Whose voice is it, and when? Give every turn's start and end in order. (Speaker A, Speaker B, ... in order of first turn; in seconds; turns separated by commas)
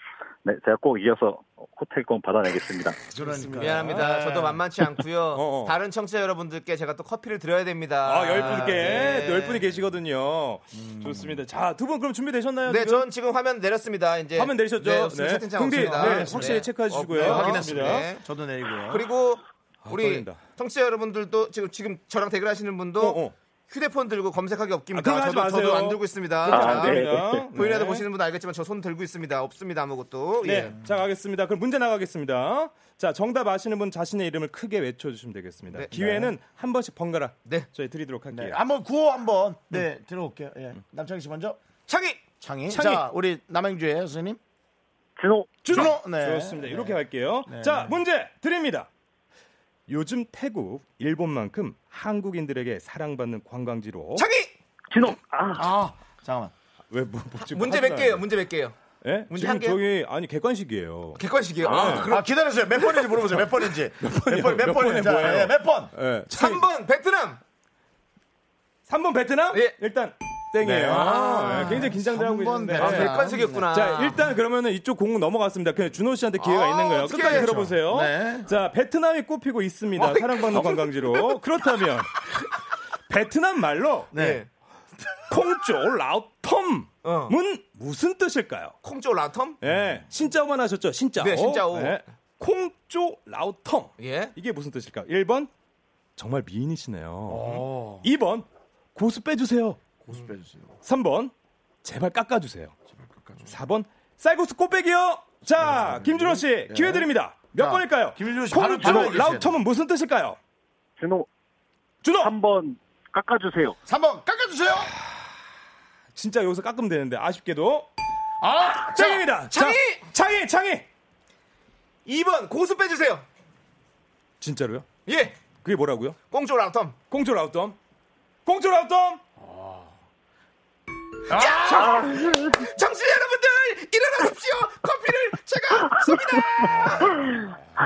Speaker A: 0.5-3.1, Speaker B: 3.1-4.6, Speaker C: 3.2-4.1, Speaker D: 3.6-9.7, Speaker C: 5.3-5.8, Speaker C: 8.1-13.1, Speaker B: 8.4-9.0, Speaker B: 10.7-11.4, Speaker D: 12.7-18.2, Speaker C: 14.4-18.1, Speaker B: 15.7-19.1, Speaker D: 18.9-30.7, Speaker C: 19.8-20.4, Speaker C: 23.0-23.4, Speaker C: 24.9-28.1, Speaker A: 26.5-27.4, Speaker C: 30.4-38.6, Speaker B: 35.9-36.4, Speaker B: 38.3-41.6, Speaker D: 41.9-43.1, Speaker B: 42.4-44.4, Speaker A: 45.2-45.7, Speaker C: 45.6-48.9, Speaker B: 45.7-48.0, Speaker C: 49.9-54.3, Speaker D: 54.1-54.5, Speaker A: 54.9-55.8, Speaker B: 55.5-56.5, Speaker C: 56.9-58.3, Speaker D: 57.4-58.8, Speaker C: 59.0-62.1, Speaker D: 59.3-59.8, Speaker D: 61.1-63.2, Speaker A: 61.6-62.0, Speaker B: 62.0-66.0, Speaker C: 64.0-66.7, Speaker D: 66.3-67.4, Speaker C: 68.9-82.3, Speaker D: 69.5-69.8, Speaker B: 70.6-73.7, Speaker D: 71.5-71.8, Speaker D: 72.7-74.2, Speaker D: 76.4-77.7, Speaker B: 77.3-78.5, Speaker D: 80.0-80.9, Speaker C: 83.1-84.1, Speaker B: 84.1-84.4, Speaker D: 84.1-84.5, Speaker C: 85.3-88.8, Speaker D: 87.0-87.4, Speaker D: 88.8-89.6, Speaker C: 89.6-95.5, Speaker D: 91.2-92.0, Speaker D: 94.0-94.3, Speaker C: 96.2-99.8, Speaker B: 97.3-98.1, Speaker B: 100.0-100.8, Speaker C: 100.8-101.3, Speaker C: 101.8-102.8, Speaker B: 103.0-103.5, Speaker C: 103.5-110.4, Speaker B: 105.6-109.6, Speaker A: 108.6-109.1, Speaker D: 108.9-109.4, Speaker A: 111.0-111.3, Speaker C: 112.0-112.4, Speaker A: 112.2-113.8, Speaker B: 113.9-114.9, Speaker C: 116.1-117.9, Speaker B: 118.4-119.3, Speaker C: 118.8-120.9, Speaker D: 119.0-120.0, Speaker D: 122.1-123.2, Speaker C: 124.4-124.9, Speaker D: 125.1-125.4, Speaker C: 125.5-126.2, Speaker D: 126.3-127.0, Speaker C: 127.1-127.8, Speaker C: 128.4-129.2, Speaker B: 129.4-129.9, Speaker B: 131.3-132.4, Speaker D: 131.3-137.3, Speaker B: 137.1-137.5